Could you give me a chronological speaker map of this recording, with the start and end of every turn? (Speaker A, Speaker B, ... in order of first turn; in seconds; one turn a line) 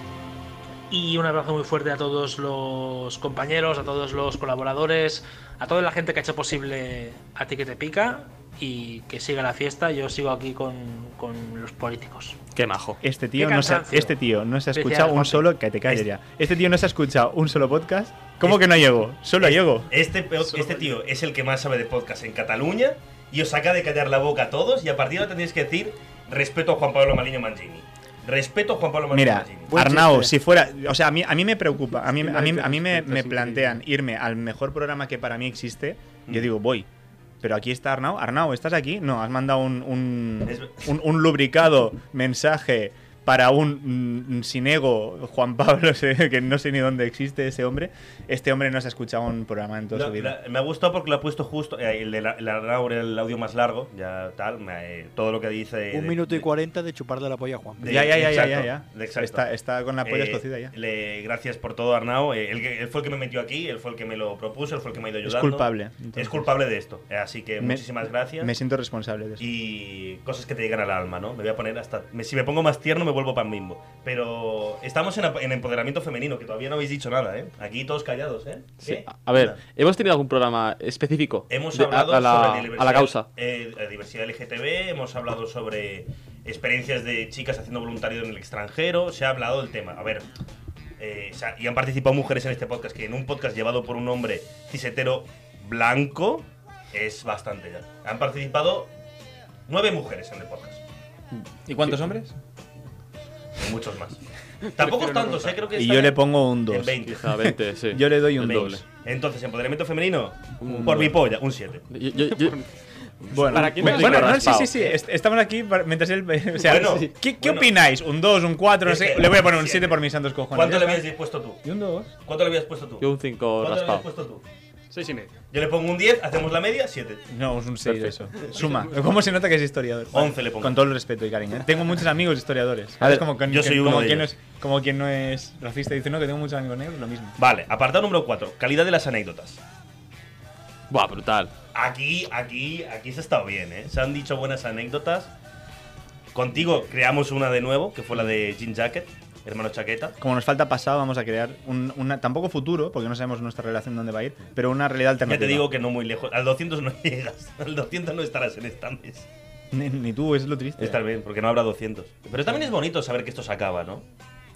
Speaker A: 0.9-12.4
Speaker B: 12.6-13.0
Speaker C: 13.0-19.9
Speaker A: 13.4-14.1
Speaker A: 14.7-15.5
Speaker D: 18.4-18.8
Speaker D: 19.4-30.0
Speaker E: 20.5-20.9
Speaker C: 29.1-36.9
Speaker F: 29.7-30.3
Speaker E: 32.1-33.8
Speaker C: 37.4-50.4
Speaker D: 40.5-40.9
Speaker D: 49.9-56.5
Speaker F: 55.9-57.9
Speaker D: 57.8-59.5
Speaker C: 57.9-60.7
Speaker D: 60.0-68.5
Speaker C: 65.2-66.5
Speaker C: 67.6-67.8
Speaker C: 68.4-69.4
Speaker D: 69.4-79.6
Speaker B: 78.8-83.3
Speaker D: 81.5-90.3
Speaker D: 91.0-98.9
Speaker D: 99.7-100.8
Speaker C: 101.7-102.3
Speaker D: 103.6-104.2
Speaker D: 104.8-107.3
Speaker E: 104.8-105.7
Speaker C: 105.8-108.8
Speaker B: 107.1-108.8
Speaker D: 108.4-111.8
Speaker B: 110.6-111.1
Speaker C: 110.7-111.1
Speaker B: 111.9-112.6
Speaker E: 112.3-112.6
Speaker B: 113.2-114.9
Speaker C: 113.3-121.0
Speaker E: 113.5-114.6
Speaker D: 116.6-117.7
Speaker D: 118.8-121.7
Speaker C: 121.6-122.1
Speaker D: 122.2-124.4
Speaker B: 123.0-124.0
Speaker E: 124.9-125.3
Speaker D: 125.5-127.2
Speaker C: 127.3-137.3
Speaker E: 128.5-128.9
Speaker D: 130.1-130.8
Speaker D: 133.4-134.3
Speaker D: 137.4-139.6
Speaker B: 140.9-141.5
Speaker D: 141.7-145.3
Speaker D: 146.3-150.2
Speaker C: 150.2-155.7
Speaker D: 155.3-159.3
Speaker C: 159.7-161.0
Speaker D: 160.8-164.1